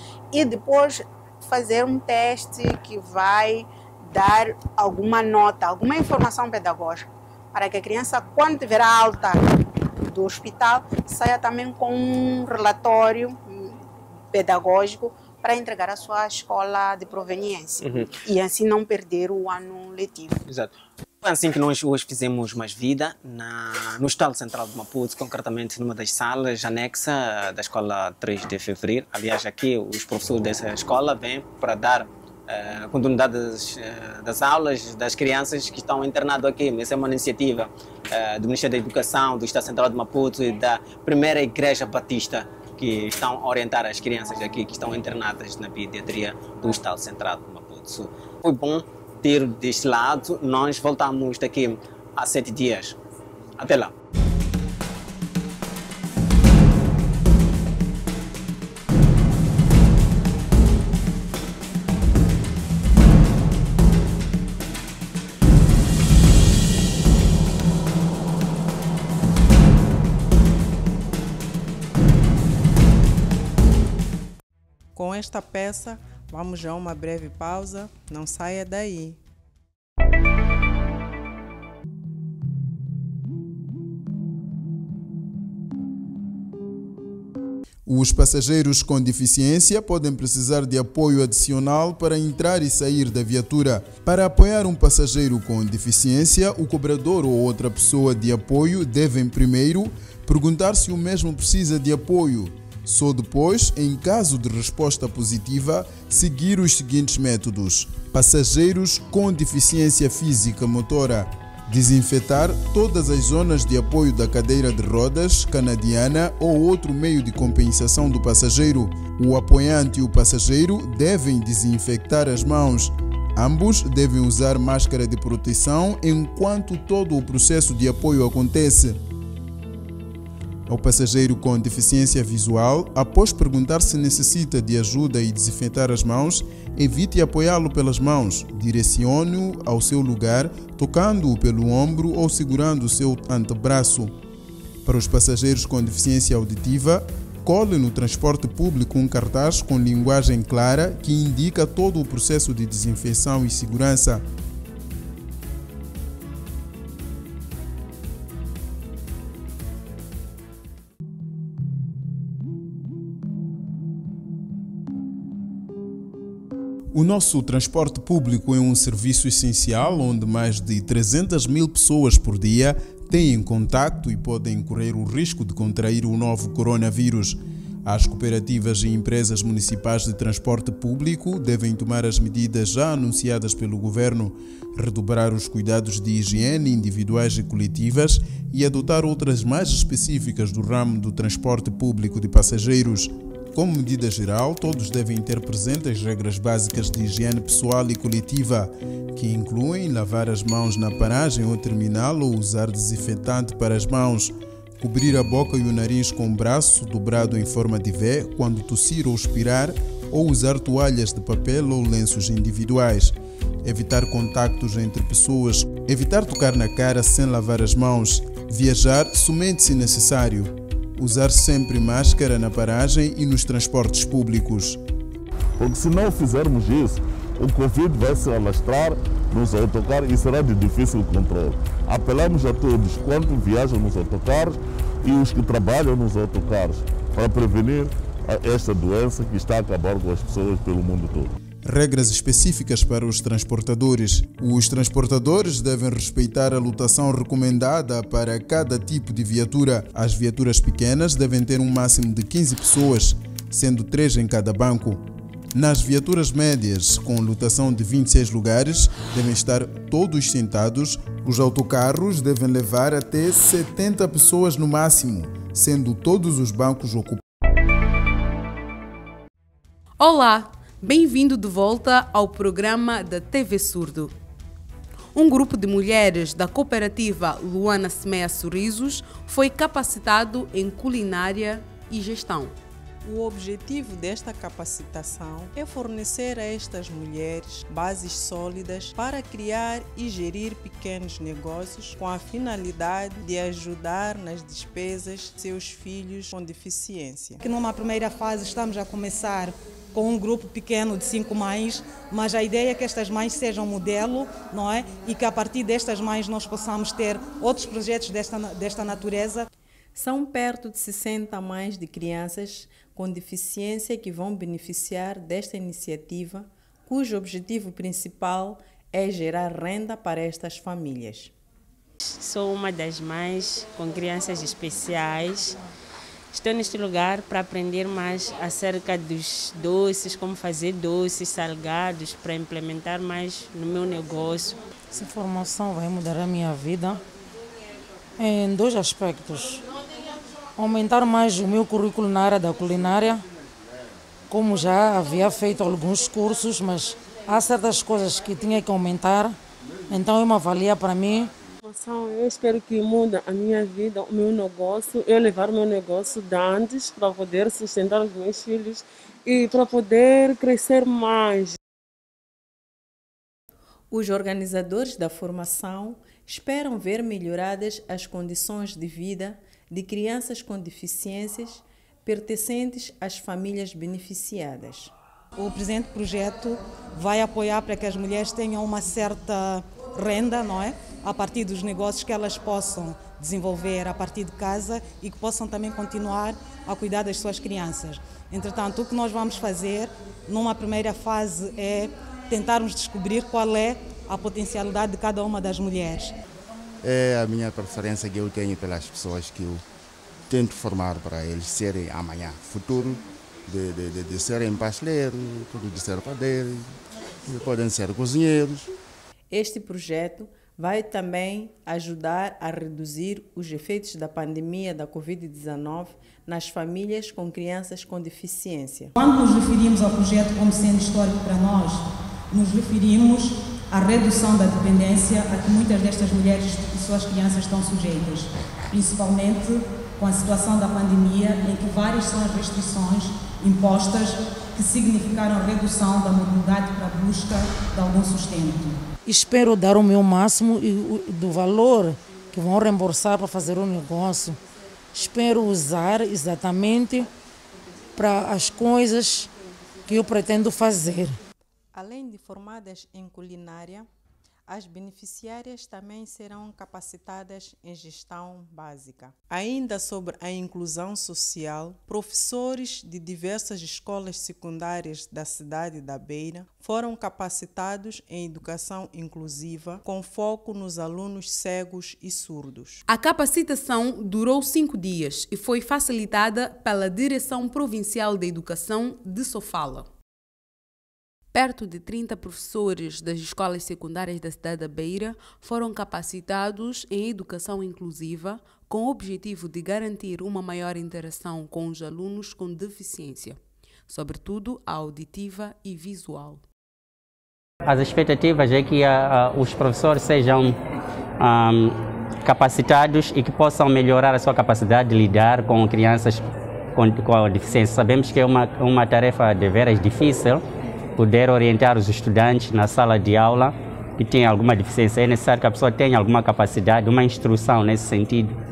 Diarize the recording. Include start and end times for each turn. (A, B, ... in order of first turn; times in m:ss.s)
0:00.3-0:20.4 A
0:17.8-0:18.1 B
0:20.5-0:53.0 B
0:53.6-0:53.9 B
1:15.0-1:19.2 C
1:27.9-2:09.0 D
2:10.7-2:24.1 D
2:24.8-2:34.2 D
2:46.9-3:44.8 D
3:45.6-4:01.3 E
4:01.6-4:27.2 D
4:30.0-4:34.1 F
4:35.1-4:42.6 F
4:43.0-4:57.4 C
4:57.4-5:09.4 G
5:10.0-5:21.3 C
5:22.0-5:25.6 H
5:26.3-5:34.6 H
5:34.9-5:37.0 I
5:38.2-5:39.6 I
5:40.6-5:43.2 I
5:44.3-5:49.4 I
5:49.9-5:51.3 I
5:51.6-6:01.6 J
6:03.9-6:14.9 C
6:15.4-6:36.1 G
6:36.8-6:39.6 K
6:40.3-6:48.7 K
6:49.3-6:58.9 C
6:59.0-7:18.8 G
7:19.1-7:24.4 I
7:24.9-7:27.1 I
7:28.0-7:29.3 I
7:29.9-7:31.2 I
7:31.7-7:33.9 C
7:34.5-7:52.8 C
7:52.9-7:59.9 F
8:01.3-8:16.4 F
8:17.6-8:20.6 L
8:21.2-8:26.2 L
8:26.8-8:30.4 L
8:31.0-8:38.3 L